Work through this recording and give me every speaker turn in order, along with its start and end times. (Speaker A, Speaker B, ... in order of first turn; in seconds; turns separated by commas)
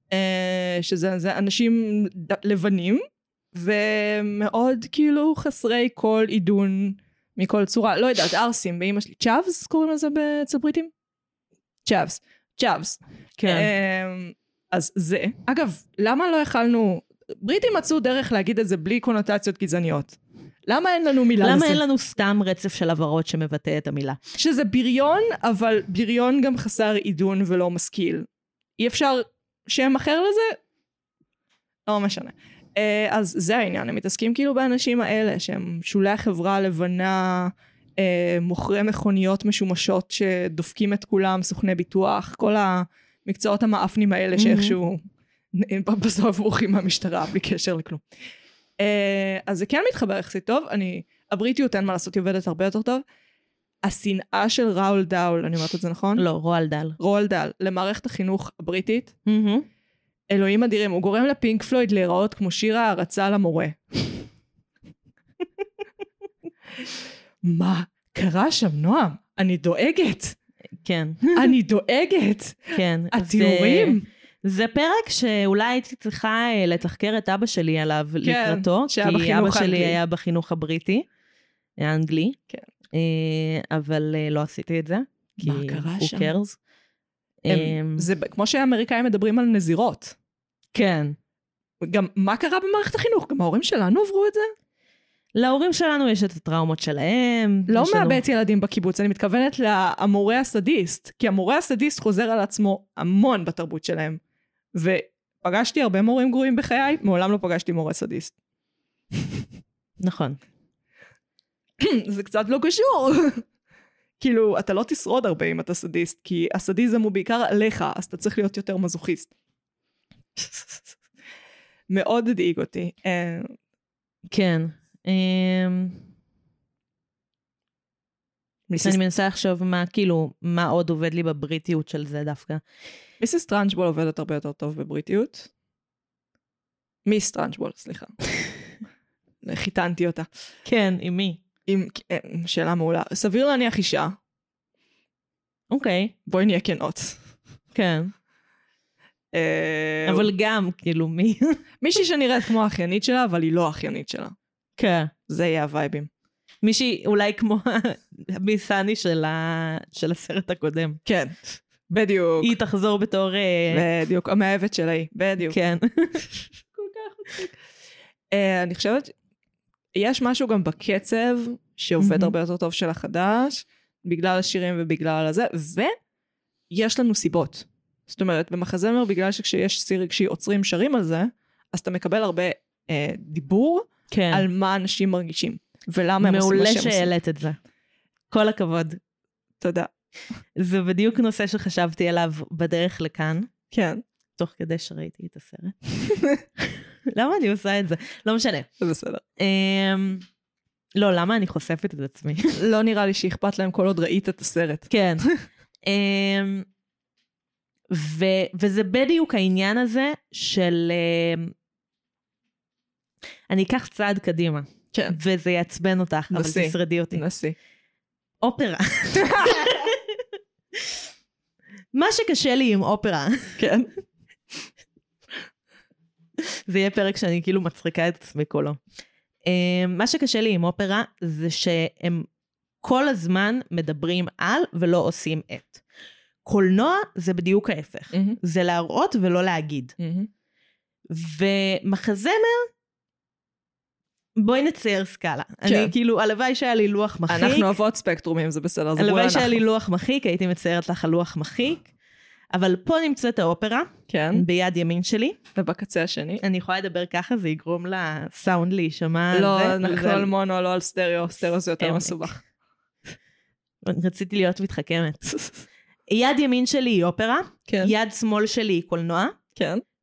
Speaker A: 0.1-3.0, Speaker A: 3.5-10.9, Speaker A: 11.8-21.8, Speaker B: 13.4-13.7, Speaker B: 21.4-24.2, Speaker A: 24.4-28.3, Speaker A: 28.8-30.6, Speaker A: 31.9-45.0, Speaker B: 44.4-44.8, Speaker A: 45.5-48.0, Speaker A: 48.8-53.0, Speaker A: 53.8-56.2, Speaker B: 56.2-57.0, Speaker A: 57.0-59.1, Speaker B: 59.2-59.6, Speaker A: 60.3-64.3, Speaker A: 67.4-70.3, Speaker B: 70.8-71.5, Speaker A: 71.3-74.0, Speaker B: 72.7-81.1, Speaker A: 78.2-80.0, Speaker B: 81.8-82.4, Speaker B: 82.9-86.6, Speaker A: 85.4-86.3, Speaker B: 87.4-88.0, Speaker A: 87.5-90.2, Speaker B: 90.7-91.2, Speaker A: 91.8-94.5, Speaker B: 95.3-98.2, Speaker A: 97.7-104.2, Speaker A: 104.7-108.3, Speaker B: 110.0-110.4, Speaker A: 111.8-113.4, Speaker A: 114.2-119.3, Speaker A: 120.4-120.8, Speaker A: 121.9-123.5, Speaker B: 124.3-126.0, Speaker A: 128.7-129.0, Speaker B: 128.8-132.6, Speaker A: 133.2-135.5, Speaker A: 137.0-138.1, Speaker A: 139.4-140.3, Speaker B: 140.6-141.4, Speaker A: 141.7-144.2, Speaker B: 145.7-146.1, Speaker A: 146.3-147.2, Speaker B: 147.7-148.1, Speaker A: 149.3-150.3, Speaker B: 150.1-151.6, Speaker A: 151.8-154.3, Speaker B: 154.8-155.1, Speaker A: 155.3-156.1, Speaker B: 156.6-161.0, Speaker A: 161.0-162.5, Speaker B: 162.4-163.8, Speaker A: 163.7-165.6, Speaker B: 165.4-166.3, Speaker A: 166.7-167.5, Speaker A: 168.3-169.1, Speaker A: 169.9-175.9, Speaker B: 172.0-172.3, Speaker A: 176.7-187.1, Speaker B: 184.1-184.4, Speaker B: 186.2-187.6, Speaker B: 188.3-189.0, Speaker A: 189.6-189.9, Speaker B: 190.6-193.5, Speaker A: 193.7-194.0, Speaker B: 194.4-195.8, Speaker B: 197.1-198.7, Speaker A: 198.8-199.2, Speaker B: 199.4-200.2, Speaker B: 200.9-202.6, Speaker A: 202.6-205.3, Speaker B: 204.9-205.2, Speaker B: 205.8-206.7, Speaker B: 207.9-211.5, Speaker B: 213.5-217.2, Speaker A: 214.9-215.2, Speaker A: 216.3-217.6, Speaker B: 218.4-221.0, Speaker A: 219.2-219.8, Speaker B: 221.9-223.6, Speaker A: 223.6-223.9, Speaker B: 226.4-228.8, Speaker B: 229.4-232.3, Speaker B: 232.8-235.8, Speaker B: 236.4-239.9, Speaker A: 238.1-238.4, Speaker A: 240.0-240.3, Speaker B: 241.1-242.7, Speaker B: 244.3-247.7, Speaker A: 245.6-245.9, Speaker A: 247.3-249.6, Speaker B: 249.0-251.9, Speaker B: 252.5-255.4, Speaker A: 254.1-254.4, Speaker A: 255.6-256.4, Speaker B: 256.4-260.3, Speaker A: 259.3-262.4, Speaker B: 261.8-262.3, Speaker B: 263.8-265.2, Speaker A: 265.3-265.6, Speaker B: 266.1-269.4, Speaker A: 267.7-267.9, Speaker A: 269.6-269.8